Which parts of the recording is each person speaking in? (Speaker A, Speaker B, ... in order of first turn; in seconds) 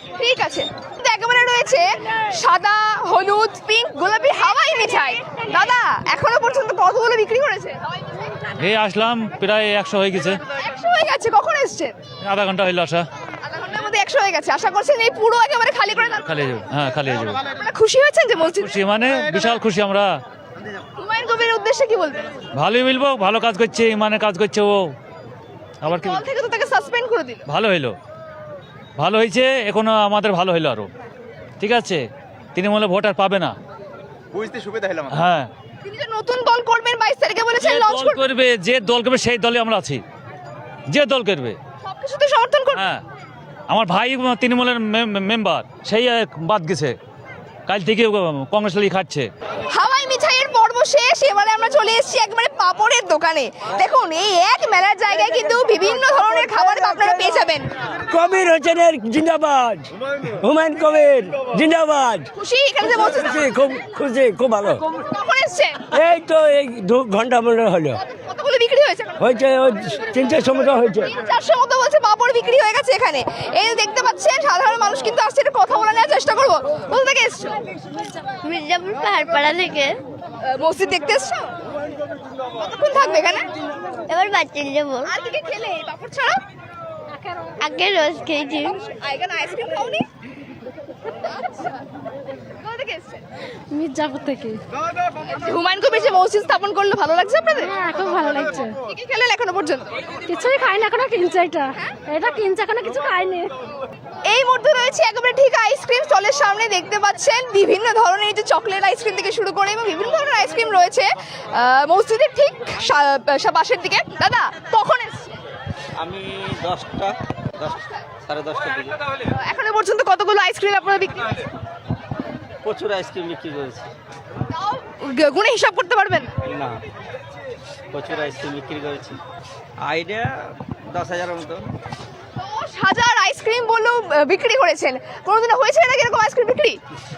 Speaker A: 0.2-7.9, 10.6-11.9, 13.4-16.3, 17.6-18.8, 21.0-22.3, 25.8-27.4, 35.8-38.2, 41.8-42.9, 49.7-57.7, 62.4-63.5, 65.1-65.9, 68.0-69.2, 71.0-77.6, 80.6-81.5, 82.6-83.5, 85.1-86.4, 88.8-90.0, 91.3-91.8, 92.6-93.2, 95.3-97.8, 98.8-100.0, 104.3-115.4, 119.3-121.4, 124.5-126.3, 132.4-136.8
Speaker B: 8.6-10.4, 12.2-13.1, 16.2-17.4, 18.6-20.1, 22.6-24.9, 25.8-26.2, 27.5-27.9, 29.0-30.9, 31.6-32.0, 32.5-33.6, 35.1-35.5, 37.6-40.0, 40.9-41.6, 42.7-43.0, 43.7-47.0, 47.7-49.3
Speaker C: 58.1-59.9, 60.5-62.2, 63.1-64.8, 66.1-67.9, 69.3-70.9
Speaker D: 78.4-80.0, 84.1-85.1, 87.6-88.8
Speaker E: 93.7-94.6, 97.7-98.7, 100.3-103.5
Speaker F: 116.0-119.0, 122.6-123.9, 126.5-126.8, 127.9-129.2, 129.8-130.2, 130.9-131.6